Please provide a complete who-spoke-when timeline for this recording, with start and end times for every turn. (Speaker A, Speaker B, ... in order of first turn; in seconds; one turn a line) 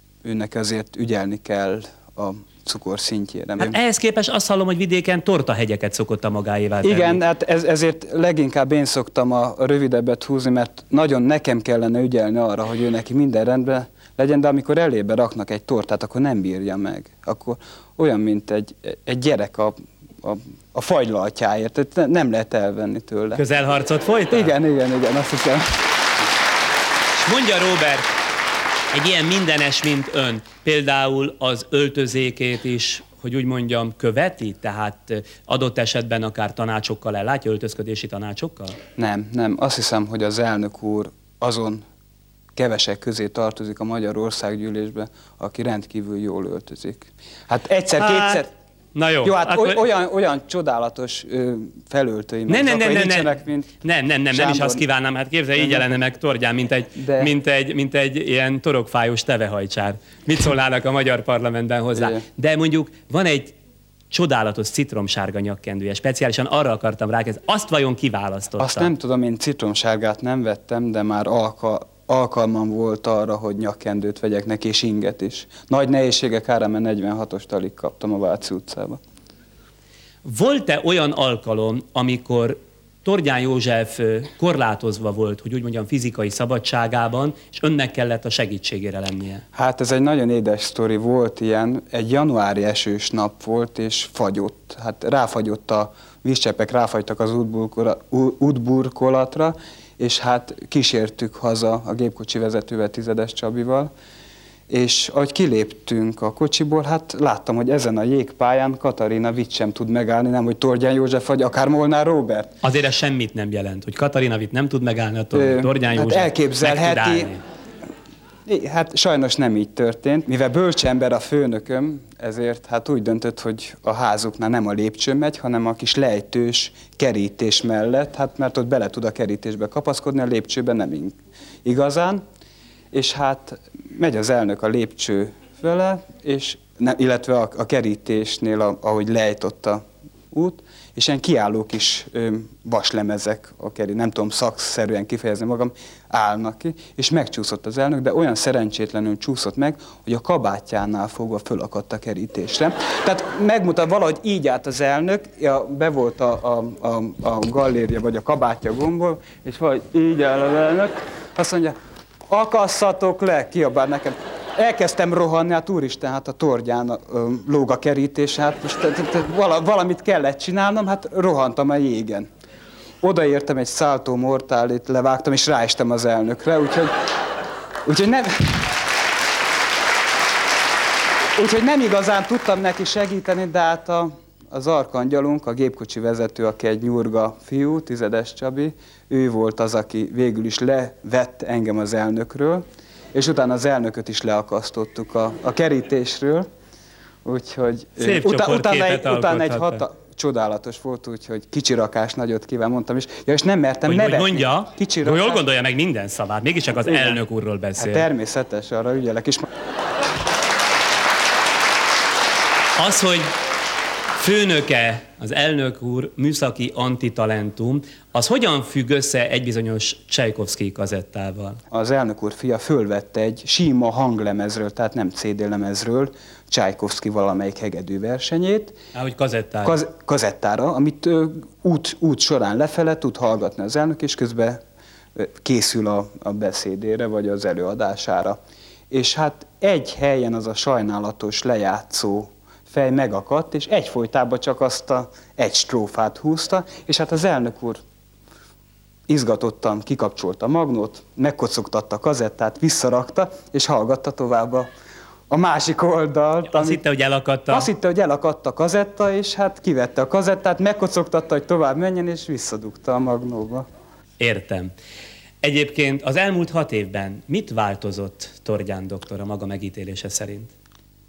Speaker A: 0.2-3.8
Speaker B: 3.6-7.2
Speaker A: 6.8-23.4
Speaker B: 23.4-24.5
Speaker A: 24.3-25.8
Speaker B: 27.2-28.1
Speaker B: 28.9-38.8
Speaker A: 39.0-41.8
Speaker A: 42.5-48.5
Speaker B: 48.0-48.4
Speaker B: 49.0-49.8
Speaker A: 49.2-53.7
Speaker B: 52.5-63.5
Speaker A: 54.3-54.8
Speaker A: 55.6-55.9
Speaker A: 57.0-57.3
Speaker A: 62.0-62.2
Speaker B: 64.1-68.9
Speaker A: 68.6-79.0
Speaker B: 80.2-89.4
Speaker A: 89.5-103.9
Speaker A: 104.7-112.5
Speaker B: 112.6-117.4
Speaker A: 115.3-117.3
Speaker A: 118.5-132.2
Speaker A: 132.9-161.8
Speaker A: 162.3-172.3
Speaker A: 173.0-176.9
Speaker A: 177.8-178.7
Speaker A: 181.4-196.5
Speaker A: 197.2-205.4
Speaker B: 198.0-199.8
Speaker B: 203.9-208.1
Speaker A: 206.8-207.2
Speaker A: 207.8-209.5
Speaker B: 212.8-213.3
Speaker B: 214.2-221.6
Speaker A: 221.7-228.8
Speaker B: 228.9-229.8
Speaker A: 229.6-234.6
Speaker A: 235.2-238.4
Speaker A: 238.9-247.8
Speaker A: 249.1-254.7
Speaker A: 255.3-256.8
Speaker B: 256.5-257.7
Speaker A: 257.5-263.7
Speaker B: 264.2-264.7
Speaker B: 265.4-270.5